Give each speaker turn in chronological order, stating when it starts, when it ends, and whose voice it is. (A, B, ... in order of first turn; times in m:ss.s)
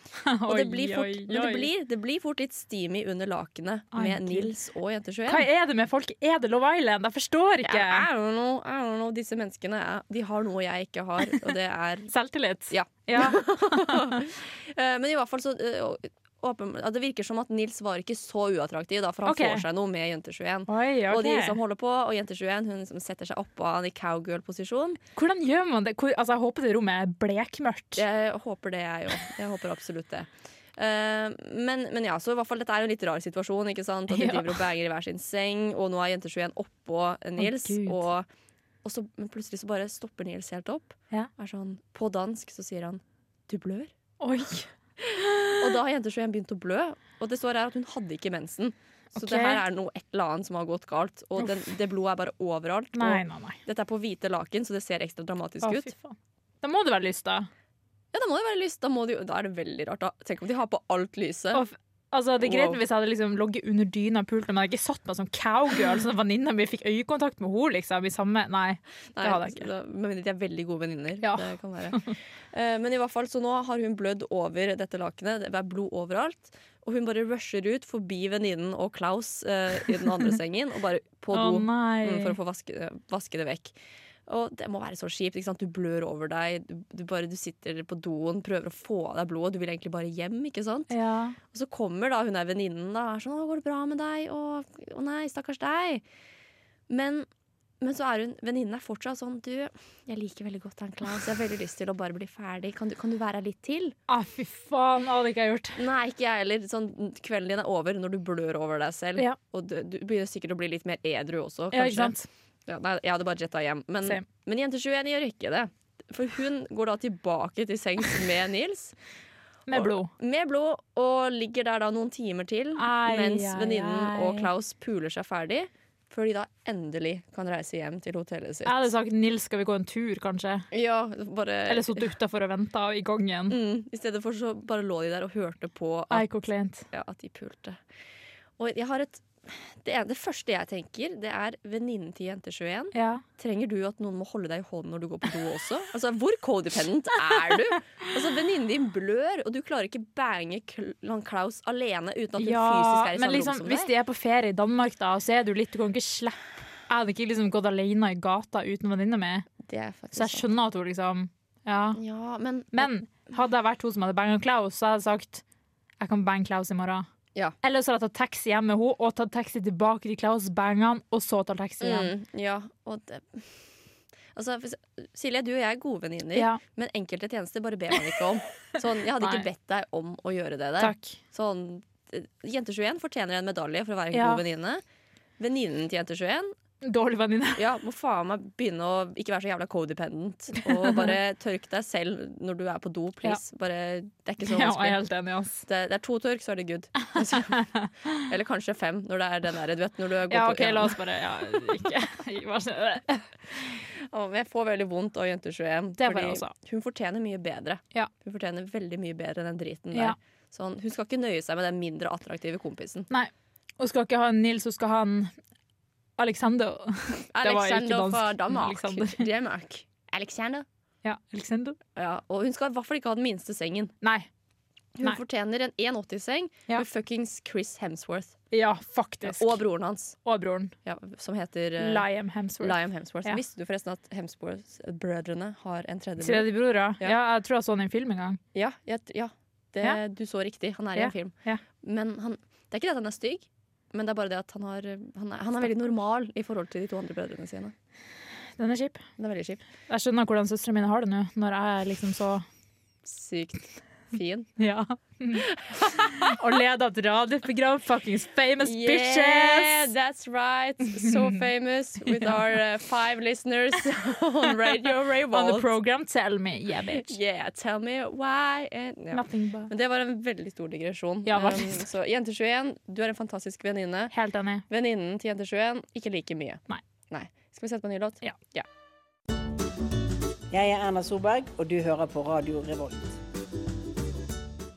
0:00.2-0:01.7 A
0:00.4-0:05.5 B
0:03.9-0:04.5 A
0:05.2-0:08.1 A
0:07.6-0:12.1 B
0:12.1-0:14.2 A
0:12.7-0:25.0 B
0:19.2-0:19.6 A
0:20.7-0:21.6 A
0:25.2-0:28.0 A
0:27.9-0:38.3 B
0:34.1-0:34.6 A
0:37.4-0:38.0 A
0:38.8-0:43.9 B
0:44.2-0:44.7 A
0:45.0-0:55.9 B
0:49.1-0:49.6 A
0:51.4-0:51.7 A
0:52.9-0:53.6 A
0:55.6-0:57.5 A
0:58.1-1:01.6 B
1:01.5-1:09.6 A
1:02.4-1:02.8 B
1:09.1-1:23.7 B
1:11.2-1:11.5 A
1:21.3-1:22.4 A
1:24.3-1:30.9 B
1:30.9-1:31.4 A
1:31.4-1:36.0 B
1:36.9-1:37.3 B
1:37.8-1:44.0 B
1:44.1-1:45.8 A
1:45.8-1:52.1 B
1:51.7-1:52.3 A
1:52.7-1:59.0 B
1:59.7-2:00.1 A
1:59.7-2:08.8 B
2:02.8-2:04.5 A
2:08.6-2:10.6 A
2:10.7-2:12.1 B
2:11.7-2:13.6 A
2:13.5-2:16.4 B
2:16.1-2:16.8 A
2:16.9-2:17.8 B
2:18.6-2:33.9 B
2:22.9-2:23.2 A
2:32.4-2:39.5 A
2:39.6-2:40.5 B
2:40.1-2:42.0 A
2:42.0-2:42.9 B
2:42.7-2:45.4 A
2:46.0-2:47.0 A
2:47.6-2:52.1 A
2:51.8-2:53.6 B
2:54.3-3:04.8 B
2:56.3-2:56.6 A
3:00.8-3:01.2 A
3:04.1-3:04.4 A
3:05.4-3:06.5 B
3:06.8-3:07.6 A
3:07.6-3:15.0 B
3:14.4-3:15.6 A
3:15.6-3:21.0 B
3:17.5-3:17.9 A
3:20.3-3:23.3 A
3:23.7-3:33.1 B
3:26.0-3:26.5 A
3:33.1-3:35.3 A
3:36.2-3:39.2 A
3:37.3-3:40.6 B
3:41.0-3:41.8 A
3:42.0-3:43.9 B
3:44.0-3:44.3 A
3:45.0-3:48.4 B
3:48.5-3:49.6 A
3:49.2-3:50.2 B
3:50.2-3:50.7 A
3:50.8-3:52.1 B
3:51.8-3:53.4 A
3:52.6-3:56.5 B
3:56.2-3:58.4 A
3:58.5-4:07.7 B
4:01.0-4:01.6 A
4:08.6-4:09.0 A
4:09.2-4:09.6 B
4:09.9-4:12.4 A
4:13.0-4:14.5 B
4:14.6-4:15.4 A
4:15.4-4:16.4 B
4:16.2-4:19.9 A
4:18.6-4:25.7 B
4:25.3-4:27.1 A
4:26.9-4:34.1 B
4:29.1-4:29.7 A
4:31.2-4:31.9 A
4:34.1-4:34.6 A
4:34.7-4:38.7 B
4:40.5-4:43.2 C